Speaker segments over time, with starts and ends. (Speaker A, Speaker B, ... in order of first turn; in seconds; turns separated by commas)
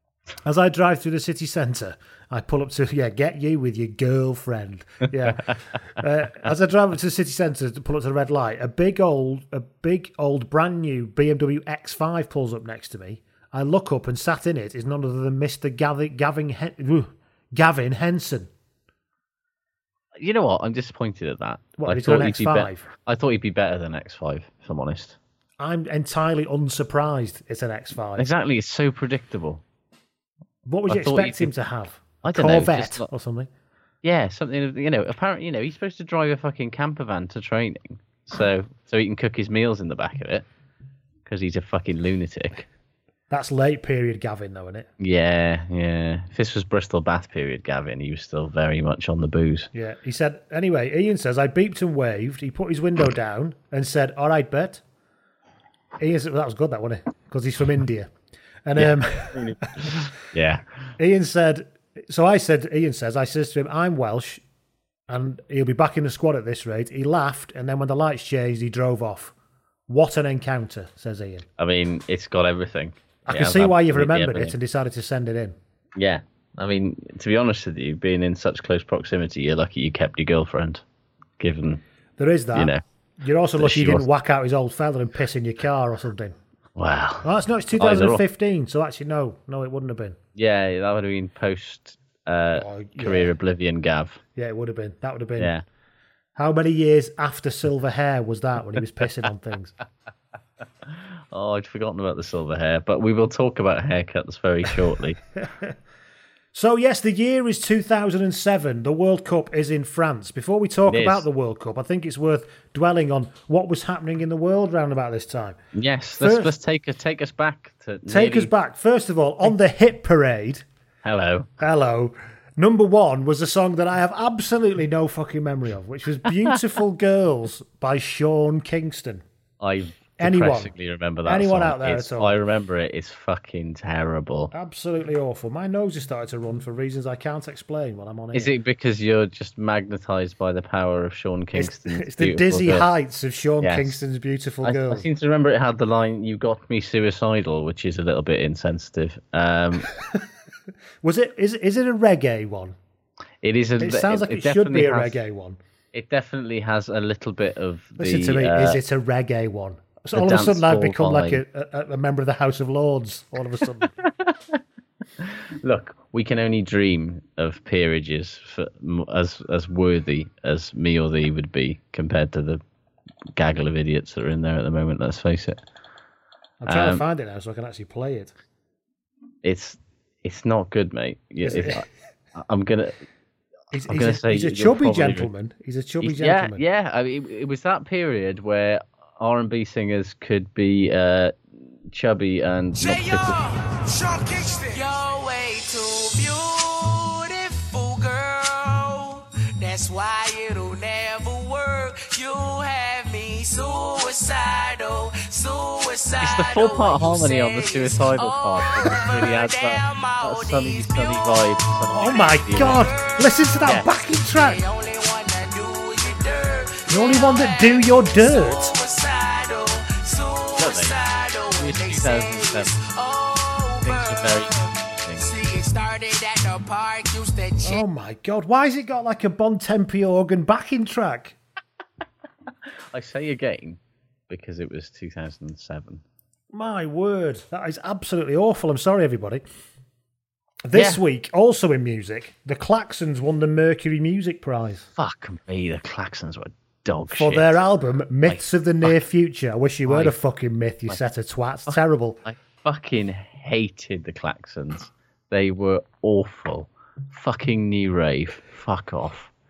Speaker A: 0.4-18.5, Speaker B: 20.2-25.2, Speaker A: 21.8-22.9, Speaker A: 25.6-28.2, Speaker B: 28.2-29.6, Speaker A: 30.7-33.5, Speaker B: 30.9-31.5, Speaker B: 32.2-33.1, Speaker B: 34.0-40.4, Speaker B: 41.2-42.6, Speaker A: 43.3-44.9, Speaker B: 45.0-49.7, Speaker A: 49.7-54.8, Speaker A: 56.0-58.1, Speaker A: 58.6-60.0, Speaker B: 58.8-60.6, Speaker A: 61.0-64.4, Speaker A: 65.1-69.3, Speaker A: 69.9-71.5, Speaker B: 71.6-74.5, Speaker A: 73.3-75.6, Speaker B: 76.0-80.8, Speaker B: 81.4-81.8, Speaker A: 82.2-86.3, Speaker B: 82.5-82.8, Speaker B: 83.6-84.0, Speaker B: 86.8-88.2, Speaker A: 87.2-90.2, Speaker B: 90.4-94.2, Speaker A: 92.6-93.3, Speaker A: 94.4-95.5, Speaker B: 95.4-95.6, Speaker A: 96.4-99.7, Speaker B: 101.3-105.2, Speaker A: 105.4-105.7, Speaker A: 106.5-115.6, Speaker B: 110.9-111.2, Speaker B: 115.8-118.5, Speaker A: 116.2-116.5, Speaker A: 118.1-120.6, Speaker B: 121.0-121.5, Speaker A: 121.6-129.2, Speaker B: 129.6-134.5, Speaker A: 130.2-130.7, Speaker A: 131.2-132.3, Speaker A: 134.5-138.5, Speaker B: 138.3-142.9, Speaker A: 141.6-145.1, Speaker B: 143.6-144.0, Speaker B: 144.6-149.9, Speaker A: 151.0-152.8, Speaker B: 153.4-155.2, Speaker A: 153.8-155.6, Speaker B: 155.9-158.8, Speaker A: 158.0-163.9, Speaker B: 160.1-161.4, Speaker B: 164.0-164.6, Speaker B: 165.2-172.6, Speaker B: 173.3-175.6, Speaker A: 176.6-178.3, Speaker B: 176.7-177.0, Speaker B: 179.4-183.0, Speaker A: 181.4-181.8, Speaker A: 183.7-186.6, Speaker B: 183.9-185.3, Speaker B: 186.0-191.4, Speaker B: 191.9-193.4, Speaker C: 192.8-227.8, Speaker B: 206.2-212.9, Speaker A: 211.9-214.6, Speaker A: 216.9-218.7, Speaker B: 220.6-220.9, Speaker B: 221.6-222.7, Speaker B: 223.8-225.3, Speaker A: 227.6-231.4, Speaker B: 232.9-233.8, Speaker B: 234.3-236.0, Speaker A: 236.5-239.4, Speaker A: 240.6-244.9, Speaker B: 240.7-241.0, Speaker B: 245.0-247.6, Speaker A: 247.1-252.2, Speaker B: 248.2-248.9, Speaker B: 249.8-250.2, Speaker B: 251.7-259.3